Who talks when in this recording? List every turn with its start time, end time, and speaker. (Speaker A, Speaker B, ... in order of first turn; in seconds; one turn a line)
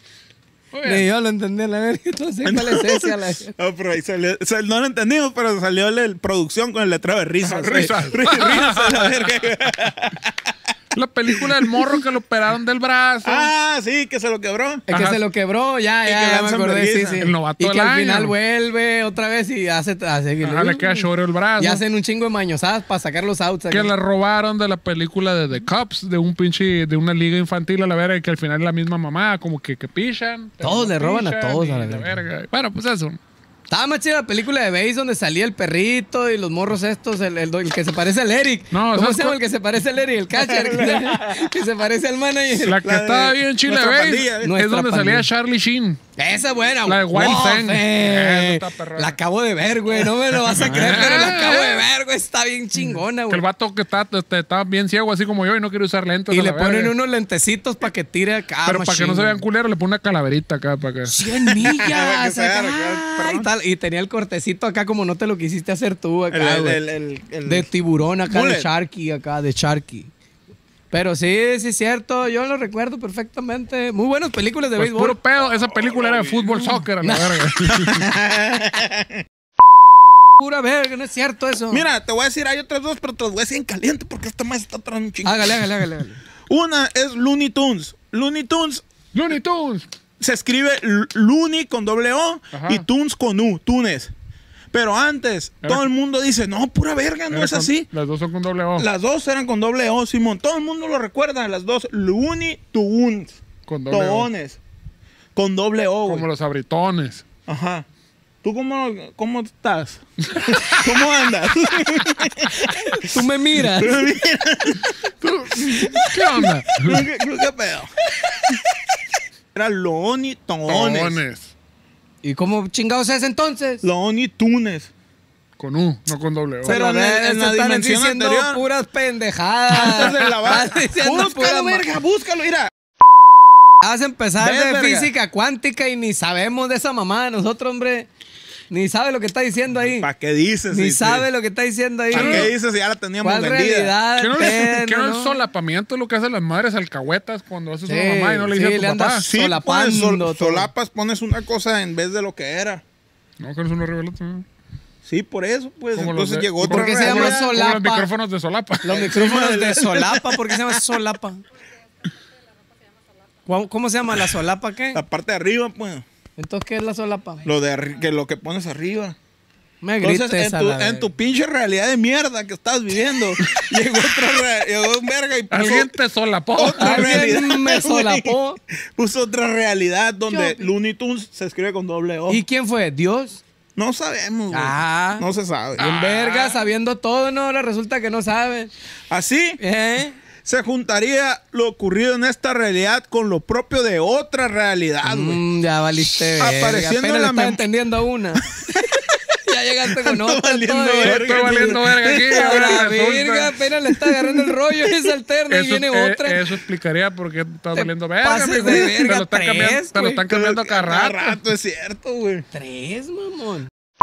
Speaker A: 0.7-1.0
Speaker B: 0.8-3.5
Speaker C: 2.4-10.5
Speaker A: 7.4-9.3
Speaker A: 10.9-13.5
Speaker C: 11.3-11.9
Speaker C: 13.2-14.8
Speaker B: 14.9-23.9
Speaker A: 14.9-15.2
Speaker C: 16.1-17.3
Speaker A: 17.2-18.3
Speaker A: 20.4-21.8
Speaker A: 23.7-33.2
Speaker B: 30.6-32.0
Speaker B: 33.7-42.8
Speaker A: 38.7-39.4
Speaker C: 40.4-41.6
Speaker A: 42.6-46.0
Speaker C: 42.8-44.5
Speaker B: 44.4-45.3
Speaker B: 46.1-53.4
Speaker A: 46.9-49.2
Speaker C: 50.4-51.1
Speaker A: 50.6-51.9
Speaker A: 52.8-56.9
Speaker B: 56.3-59.4
Speaker A: 58.6-61.1
Speaker B: 61.1-66.8
Speaker C: 61.5-63.5
Speaker C: 66.3-67.7
Speaker B: 67.4-70.1
Speaker C: 68.3-68.7
Speaker B: 70.9-75.2
Speaker A: 74.8-78.1
Speaker C: 75.4-76.8
Speaker B: 77.0-77.4
Speaker C: 77.7-79.2
Speaker B: 80.4-81.8
Speaker C: 81.7-85.7
Speaker B: 85.2-86.2
Speaker C: 86.5-88.8
Speaker A: 89.1-89.8
Speaker C: 90.2-94.1
Speaker A: 92.5-92.8
Speaker C: 94.7-97.9
Speaker A: 97.3-98.9
Speaker C: 98.8-104.6
Speaker A: 103.7-104.3
Speaker C: 105.3-106.3
Speaker A: 106.1-107.2
Speaker C: 107.5-107.8
Speaker C: 108.4-112.7
Speaker B: 112.6-114.0
Speaker C: 113.6-114.9
Speaker A: 115.2-117.0
Speaker C: 115.6-116.0
Speaker C: 116.8-118.7
Speaker C: 119.5-121.2
Speaker A: 120.7-121.5
Speaker B: 122.2-123.8
Speaker C: 123.8-124.9
Speaker A: 125.6-126.8
Speaker C: 126.6-128.6
Speaker B: 126.6-131.8
Speaker C: 129.7-132.7
Speaker A: 129.8-130.4
Speaker B: 133.8-138.1
Speaker C: 134.4-135.1
Speaker B: 138.7-140.1
Speaker C: 139.9-141.2
Speaker B: 140.7-142.5
Speaker C: 142.1-143.9
Speaker A: 142.1-142.5
Speaker B: 143.2-145.3
Speaker A: 144.2-149.2
Speaker B: 147.9-150.7
Speaker C: 149.2-152.8
Speaker A: 153.4-154.4
Speaker C: 155.0-157.5
Speaker A: 155.9-159.1
Speaker B: 156.6-158.1
Speaker B: 158.8-161.4
Speaker C: 158.9-160.8
Speaker B: 163.5-165.0
Speaker C: 164.9-166.0
Speaker B: 166.4-167.4
Speaker C: 167.4-169.2
Speaker B: 169.8-171.1
Speaker C: 170.0-175.9
Speaker A: 175.5-177.3
Speaker C: 176.5-182.4
Speaker B: 176.8-178.6
Speaker B: 180.3-180.7
Speaker B: 182.3-183.4
Speaker C: 183.8-185.8
Speaker B: 184.5-185.2
Speaker B: 185.8-188.7
Speaker A: 185.8-186.6
Speaker C: 189.1-189.6
Speaker B: 189.6-190.2
Speaker C: 190.4-195.4
Speaker B: 195.0-206.5
Speaker C: 196.4-197.6
Speaker C: 199.9-202.6
Speaker A: 201.0-203.6
Speaker A: 205.5-211.4
Speaker B: 207.7-210.2
Speaker C: 208.7-208.9
Speaker C: 210.3-212.4
Speaker B: 212.5-213.7